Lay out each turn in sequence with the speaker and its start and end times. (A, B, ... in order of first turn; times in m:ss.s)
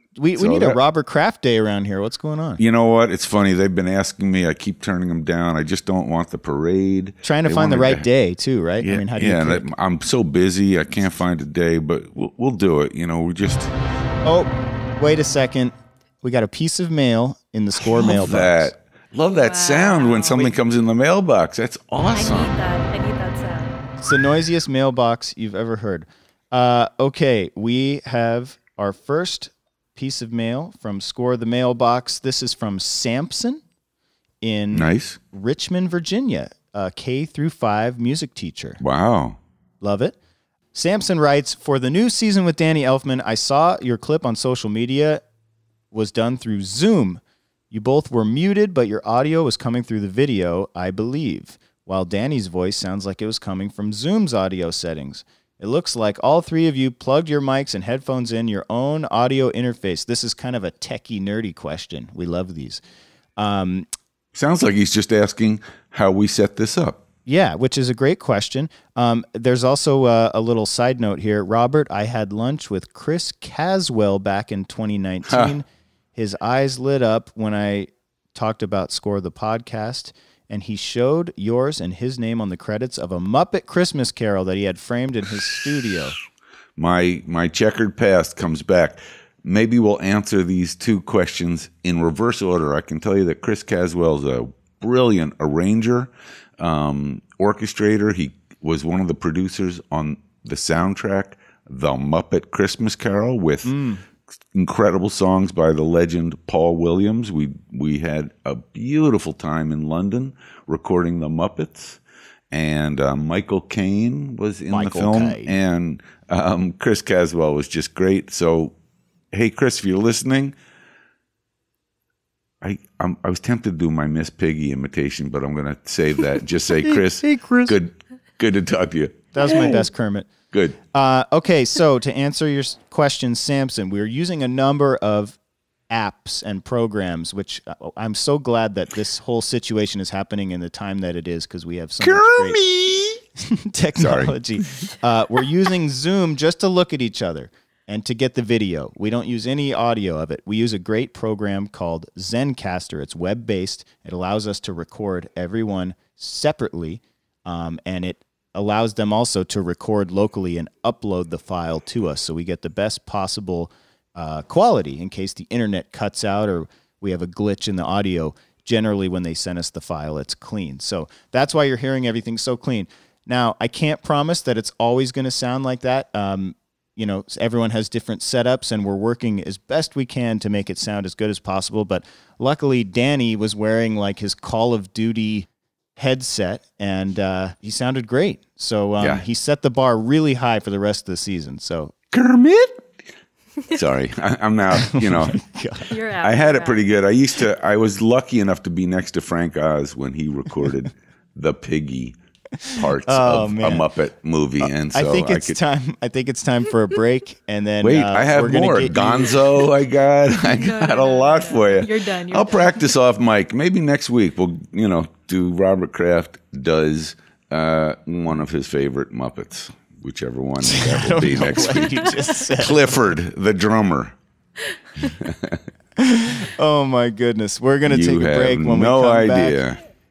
0:00.2-0:02.6 A
0:00.4-0:00.8 B
0:02.6-0:08.0 B
0:07.2-0:09.7 A
0:08.8-0:13.7 B
0:14.2-0:18.7 A
0:17.8-0:22.6 B
0:19.3-0:20.5 C
0:22.1-0:23.7 C
0:24.0-0:33.6 A
0:34.4-0:38.8 A
0:34.7-0:35.2 B
0:38.8-0:39.4 B
0:39.8-0:40.1 A
0:40.7-0:45.2 A
0:45.9-1:02.8 A
1:03.4-1:03.9 A
1:04.3-1:07.0 B
1:07.2-1:26.2 A
1:15.3-1:15.6 B
1:26.8-1:43.7 B
1:43.6-1:44.0 A
1:44.5-1:52.0 B
1:52.5-1:58.7 B
1:54.7-1:55.6 A
1:59.3-2:00.5 B
2:02.6-2:09.8 B
2:06.9-2:07.7 A
2:09.3-2:10.3 A
2:10.5-2:10.8 B
2:10.9-2:15.4 A
2:15.9-2:22.6 A
2:22.0-2:23.2 B
2:23.4-3:11.9 A
2:24.0-2:24.3 B
3:09.0-3:09.2 B
3:12.1-3:12.9 B
3:13.7-3:15.4 B
3:14.7-3:15.9 A
3:15.9-3:16.8 C
3:16.2-3:25.6 B
3:23.0-3:23.8 A
3:24.6-3:29.4 A
3:27.8-3:42.1 B
3:30.4-3:32.9 C
3:40.6-3:42.8 A
3:42.6-3:44.2 B
3:45.2-3:45.6 B
3:46.0-3:49.6 A
3:47.8-3:49.8 B